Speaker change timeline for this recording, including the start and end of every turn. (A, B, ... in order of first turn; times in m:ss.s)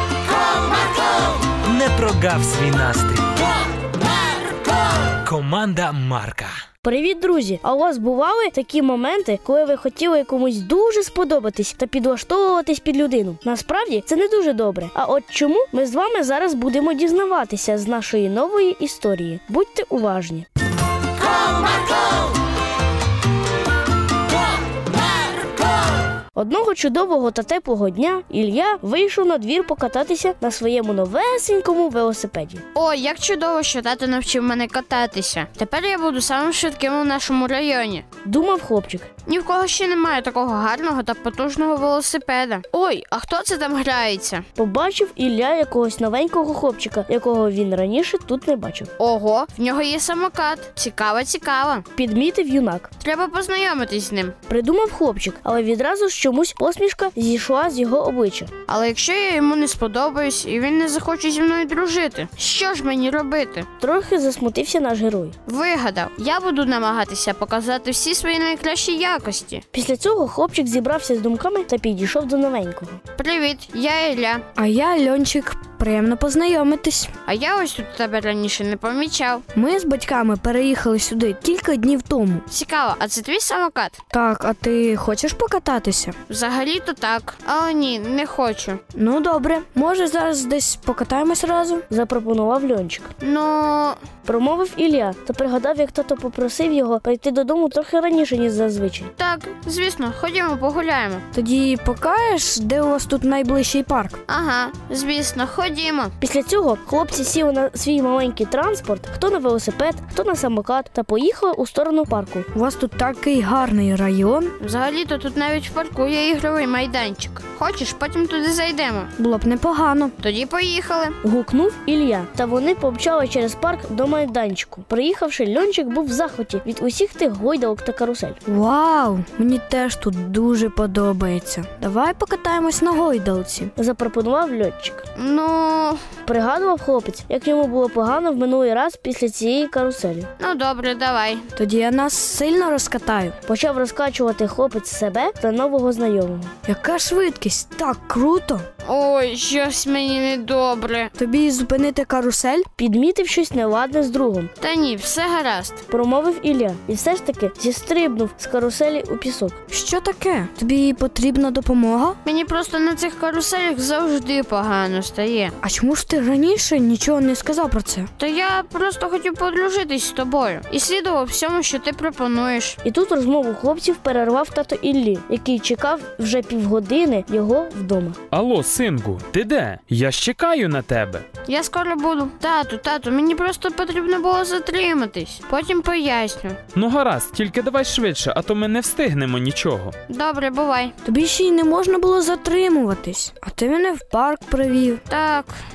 0:01.7-0:03.4 A
0:05.2-0:06.5 A
0:06.8-0:20.5 B
0:26.4-0:32.6 B
0:32.7-0:38.0 C
0:38.2-0:39.1 B
0:39.2-0:44.5 C
0:44.6-0:48.9 B
0:49.0-0:51.8 C
0:52.0-0:52.9 B
0:53.0-0:54.4 C
0:54.5-0:58.5 B
0:58.7-1:03.7 C
1:03.8-1:05.4 B
1:05.5-1:09.6 C
1:09.7-1:13.0 B
1:13.2-1:14.4 C
1:14.6-1:17.1 D
1:17.2-1:19.4 C
1:19.5-1:22.4 D
1:22.5-1:24.0 C
1:24.1-1:26.2 D
1:26.3-1:28.8 C
1:29.0-1:31.8 D
1:31.9-1:33.1 B
1:33.2-1:34.0 C
1:34.2-1:39.1 B
1:39.2-1:41.2 C
1:41.3-1:44.2 D
1:44.3-1:46.1 C
1:46.2-1:52.5 B
1:52.5-1:54.5 D
1:54.6-1:59.1 C
1:59.2-2:00.1 D
2:00.2-2:01.2 C
2:01.2-2:08.4 B
2:08.5-2:13.7 D
2:13.8-2:15.0 B
2:15.2-2:16.0 C
2:16.3-2:20.3 B
2:20.4-2:21.4 C
2:21.6-2:23.4 D
2:23.5-2:26.5 B
2:26.7-2:28.7 D
2:28.8-2:31.1 C
2:31.2-2:32.7 D
2:32.8-2:34.5 B
2:34.6-2:35.8 C
2:35.9-2:39.6 B
2:39.7-2:42.2 D
2:42.2-2:45.6 C
2:45.6-2:48.1 D
2:48.2-2:52.8 C
2:52.8-2:58.2 B
2:58.3-3:01.2 E
3:01.4-3:06.6 C
3:06.7-3:10.0 E
3:10.1-3:10.9 C
3:11.0-3:15.0 D
3:15.1-3:15.6 C